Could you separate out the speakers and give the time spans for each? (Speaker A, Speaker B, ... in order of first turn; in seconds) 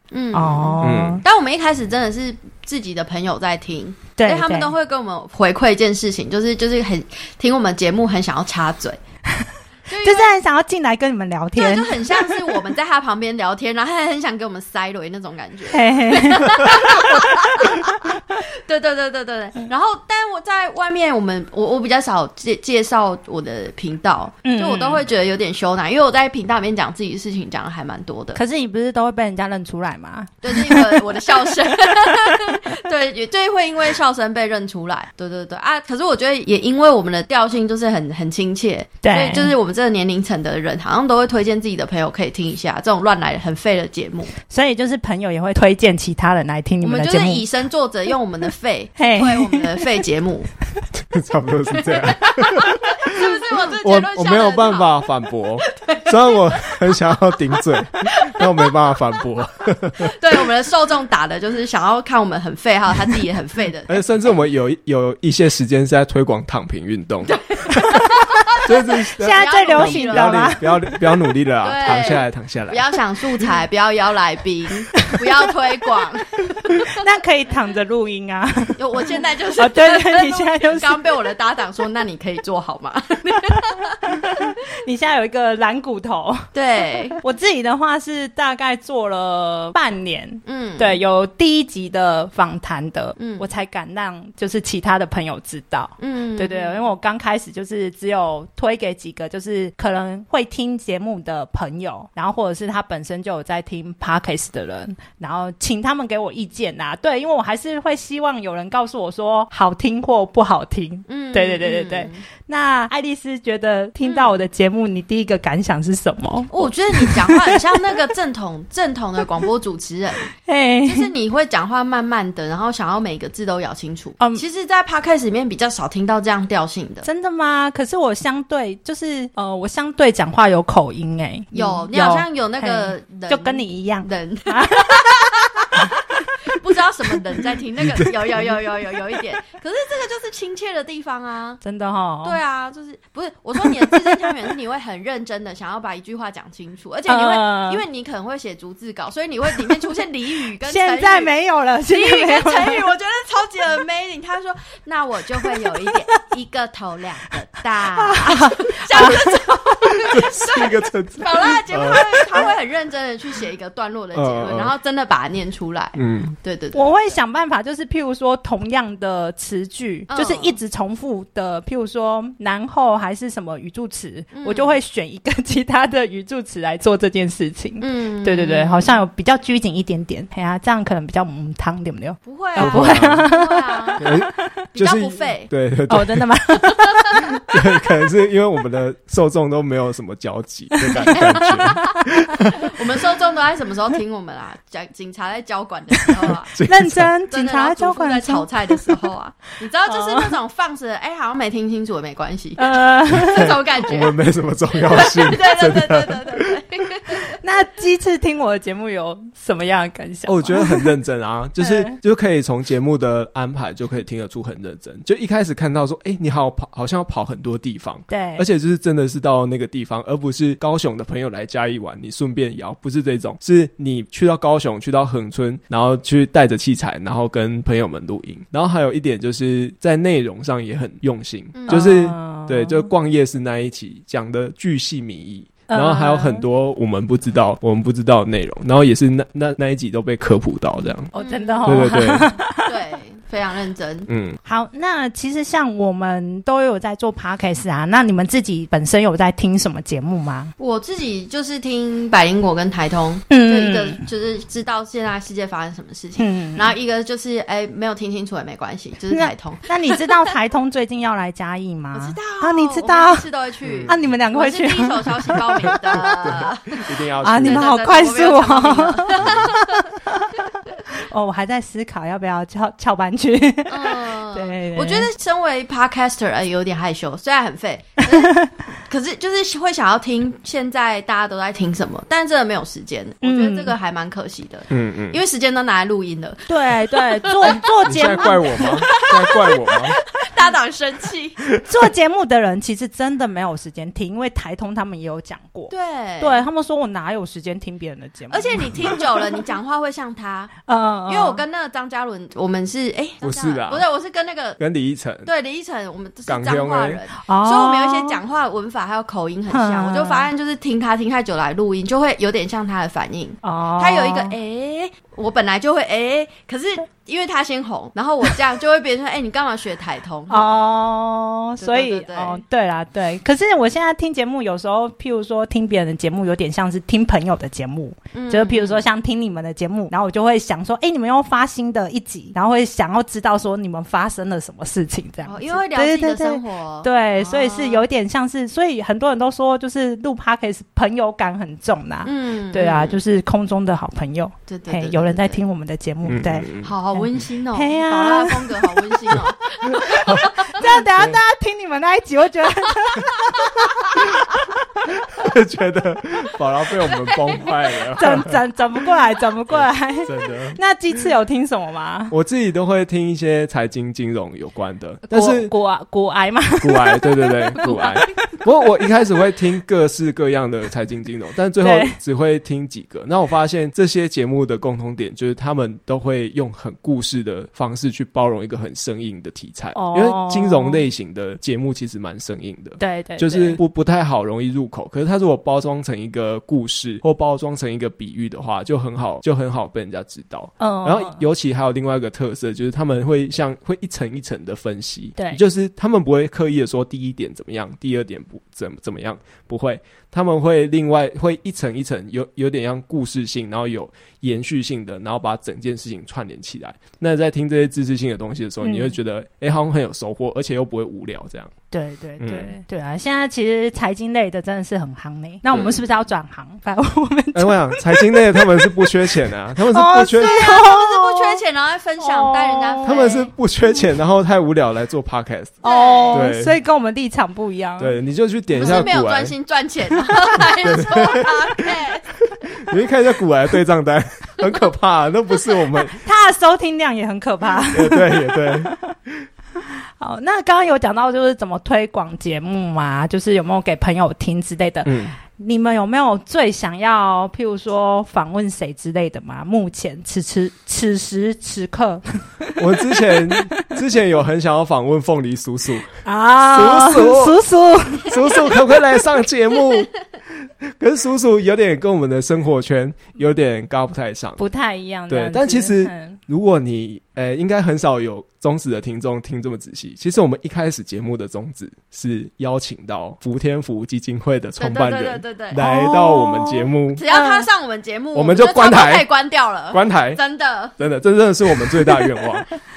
Speaker A: 0.1-9.0, 9.9-10.3, 11.6-28.4, 30.4-44.3, 46.8-50.5, 51.8-55.0, 55.6-56.7, 60.2-64.0, 67.3-68.6, 69.1-70.6, 71.6-76.9, 78.8-84.0, 86.5-87.2, 90.5-91.0, 93.2-93.5, 96.0-96.8, 111.1-112.2, 114.0-114.4, 116.5-120.3, 120.8-127.1, 131.5-135.9, 136.5-141.6, 142.2-151.3, 151.9-167.0, 170.1-170.6, 174.3-174.8, 177.8-179.0, 182.2-184.0, 184.7-185.5, 186.8-187.2, 191.2-191.7, 192.7-196.5, 197.3-204.2, 204.8-207.2, 231.5-231.8, 241.2-242.0, 242.6-244.1, 250.6-260.3, 261.9-269.6, 273.7-291.4, 295.7-296.4, 298.3-300.5, 301.1-304.6, 305.2-320.5, 321.6-322.4, 328.1-328.8, 335.2-337.8, 342.0-343.0, 344.5-345.4, 346.6-350.6, 356.9-357.4, 420.3-423.3, 425.6-426.3, 428.5-432.2, 474.6-475.6, 476.9-480.7
Speaker B: 0.3-1.2, 4.2-4.7, 10.0-12.5, 15.7-16.8, 24.4-25.0, 28.3-32.3, 39.0-39.5, 44.5-47.5, 49.0-49.8, 69.2-70.9, 76.7-78.8, 79.6-81.1, 84.1-86.5, 87.2-117.6, 120.4-121.1, 124.2-124.4, 127.0-135.8, 141.6-142.4, 147.1-147.8, 150.6-152.9, 155.4-156.3, 157.9-159.4, 166.7-184.5, 185.9-187.4, 190.7-192.0, 196.7-199.1, 199.9-200.3, 202.6-203.5, 207.4-210.9, 211.6-211.9, 218.1-218.4, 231.7-232.9, 235.7-236.4, 241.1-242.7, 244.4-250.5, 253.3-254.0, 256.2-256.7, 259.1-263.2, 263.9-266.0, 267.2-275.1, 278.2-278.5, 283.2-283.7, 286.5-288.8, 291.6-298.9, 300.6-301.4, 307.2-308.2, 309.5-310.3, 313.4-314.3, 320.3-348.9, 350.4-354.4, 358.0-362.1, 365.1-368.4, 371.6-371.9, 379.7-380.8, 382.8-383.6, 390.6-391.2, 408.6-409.0, 411.7-418.9, 419.7-421.4, 422.0-423.1, 425.6-427.9, 435.9-438.8, 439.6-452.6, 453.3-453.6, 456.0-458.2, 464.4-466.2, 475.5-477.5
Speaker C: 0.8-1.2, 51.1-60.1, 63.9-67.4, 68.5-72.9, 160.0-162.5, 164.1-164.7, 165.9-166.3, 182.6-183.3, 184.0-186.3, 187.5-192.7, 196.5-197.1, 203.3-206.5, 210.2-241.1, 241.6-242.3, 244.1-244.4, 263.6-264.1, 266.2-267.7, 269.2-269.5, 284.7-285.2, 287.4-290.0, 303.2-303.9, 304.6-305.3, 306.3-307.0, 346.1-346.7, 349.9-351.2, 355.1-358.4, 359.5-360.6, 362.1-365.5, 366.6-411.5, 412.2-412.5, 415.5-415.8, 417.3-420.4, 422.8-425.6, 426.1-426.6, 427.8-429.3, 430.6-431.6, 432.6-436.0, 437.7-439.1, 444.8-445.1, 452.6-457.4, 458.0-464.4, 465.1-477.0, 478.1-479.1, 479.7-480.2, 480.8-482.5